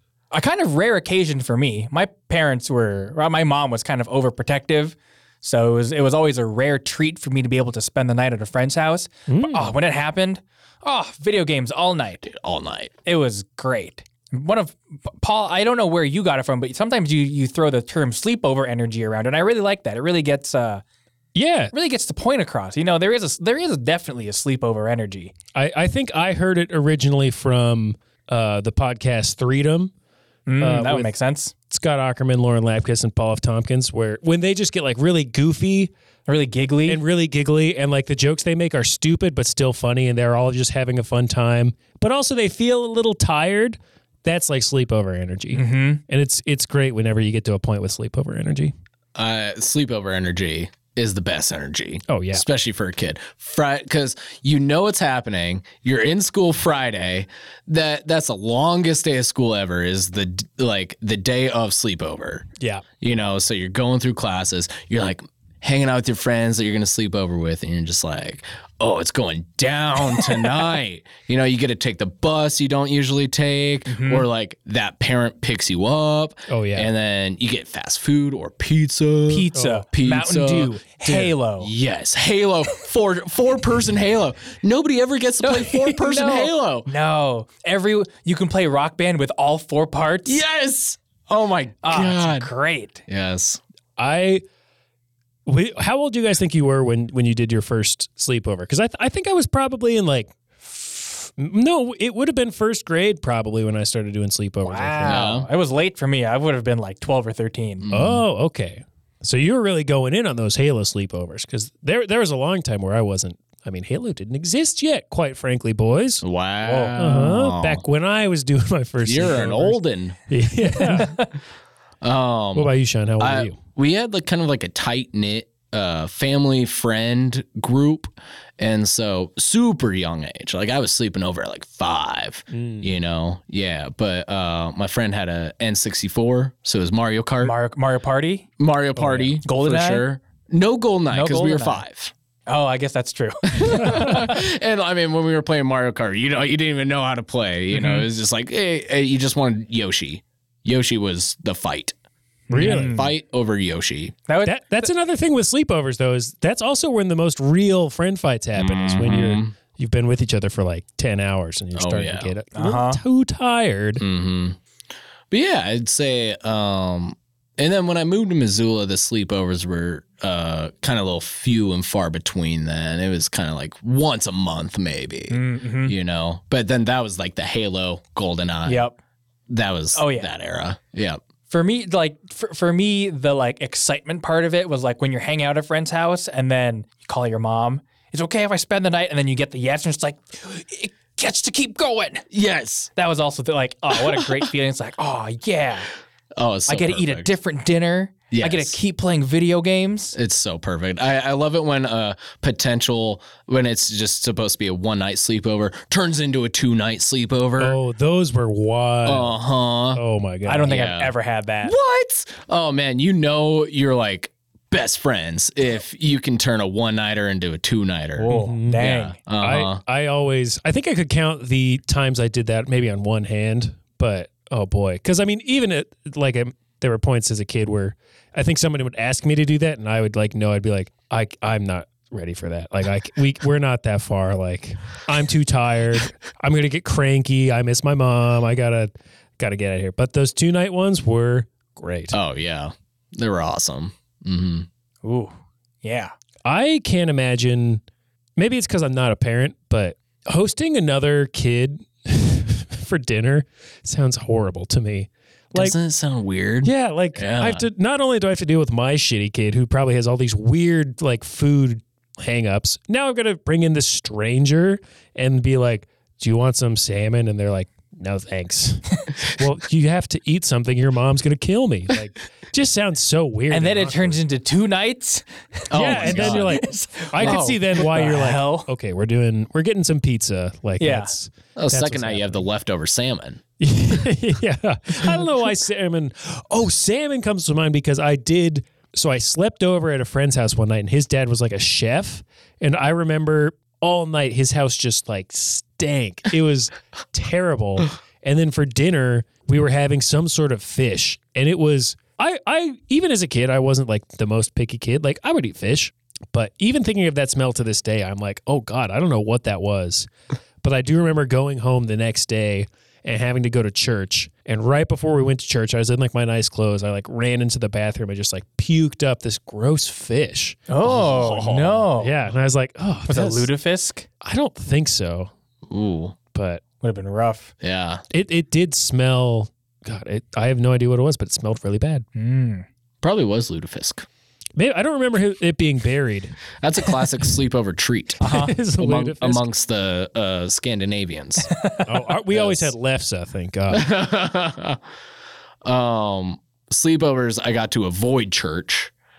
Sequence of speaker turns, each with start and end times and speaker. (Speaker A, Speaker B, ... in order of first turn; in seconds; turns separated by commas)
Speaker A: 0.3-12.3, Speaker B: 9.3-9.7, Speaker C: 12.3-12.9, Speaker A: 13.1-20.8, Speaker B: 21.3-21.7, Speaker A: 21.7-25.3, Speaker B: 25.5-29.9, Speaker A: 30.5-31.5, Speaker B: 30.6-31.1, Speaker B: 31.7-35.9, Speaker A: 36.3-37.0, Speaker B: 36.9-48.7, Speaker A: 45.5-46.0, Speaker C: 49.1-62.5, Speaker B: 52.1-52.4, Speaker C: 63.0-86.9, Speaker A: 73.9-74.2, Speaker B: 76.5-76.9, Speaker A: 79.3-81.7, Speaker B: 79.5-79.8, Speaker A: 85.4-90.4, Speaker C: 90.2-92.5, Speaker A: 91.8-93.0, Speaker C: 93.1-93.6, Speaker B: 94.0-94.4, Speaker B: 95.5-105.3, Speaker A: 104.6-107.9, Speaker C: 105.0-105.5, Speaker C: 107.8-108.2, Speaker B: 107.9-116.2, Speaker C: 116.2-117.8, Speaker A: 116.7-117.2, Speaker B: 116.9-121.2, Speaker C: 119.0-120.2, Speaker A: 120.8-121.2, Speaker C: 122.0-137.5, Speaker B: 122.5-123.6, Speaker B: 132.5-132.9, Speaker A: 137.4-138.5, Speaker C: 138.6-142.1, Speaker B: 139.0-139.3, Speaker A: 139.4-140.0, Speaker A: 141.1-141.8, Speaker A: 142.5-144.3, Speaker C: 143.5-151.9, Speaker A: 147.7-148.1, Speaker A: 152.5-153.1, Speaker B: 152.5-152.9, Speaker C: 152.5-154.1, Speaker A: 154.3-154.6, Speaker B: 154.4-164.0, Speaker C: 158.6-159.5, Speaker C: 161.7-162.3, Speaker A: 162.5-163.0, Speaker C: 164.0-164.6, Speaker C: 165.3-178.9, Speaker A: 175.3-175.9, Speaker A: 178.7-178.9, Speaker C: 179.5-181.2, Speaker A: 179.9-180.3, Speaker A: 181.5-192.2, Speaker C: 192.3-192.9, Speaker A: 192.9-195.9, Speaker C: 196.3-197.3, Speaker A: 196.7-200.2, Speaker C: 198.3-198.8, Speaker C: 200.1-207.8, Speaker B: 207.6-209.3, Speaker C: 209.1-210.0, Speaker B: 209.9-210.7, Speaker A: 210.4-211.7, Speaker C: 210.7-219.8, Speaker A: 218.2-219.2, Speaker B: 218.3-218.8, Speaker B: 219.4-242.1, Speaker C: 242.1-244.7, Speaker A: 245.0-246.1, Speaker B: 246.4-247.8, Speaker B: 248.4-255.8, Speaker C: 255.5-257.6, Speaker B: 256.6-274.2, Speaker A: 273.5-278.7, Speaker C: 275.7-276.6, Speaker B: 275.7-282.4, Speaker C: 277.1-277.5, Speaker A: 280.8-281.1, Speaker C: 281.6-283.4, Speaker B: 283.6-310.1, Speaker B: 310.6-320.6, Speaker A: 320.7-322.1, Speaker C: 320.8-321.9, Speaker B: 322.0-323.5, Speaker A: 323.1-324.1, Speaker B: 324.2-325.3, Speaker C: 325.7-326.1, Speaker B: 326.3-326.6, Speaker A: 326.8-327.5, Speaker C: 327.6-328.0, Speaker B: 328.1-332.0, Speaker A: 332.1-332.6, Speaker C: 333.0-334.1, Speaker B: 334.6-336.4, Speaker C: 336.6-341.5, Speaker A: 338.2-338.5, Speaker B: 338.2-339.5, Speaker A: 341.4-341.9, Speaker B: 341.9-343.9, Speaker C: 342.3-342.7, Speaker C: 343.7-344.8, Speaker C: 345.6-348.9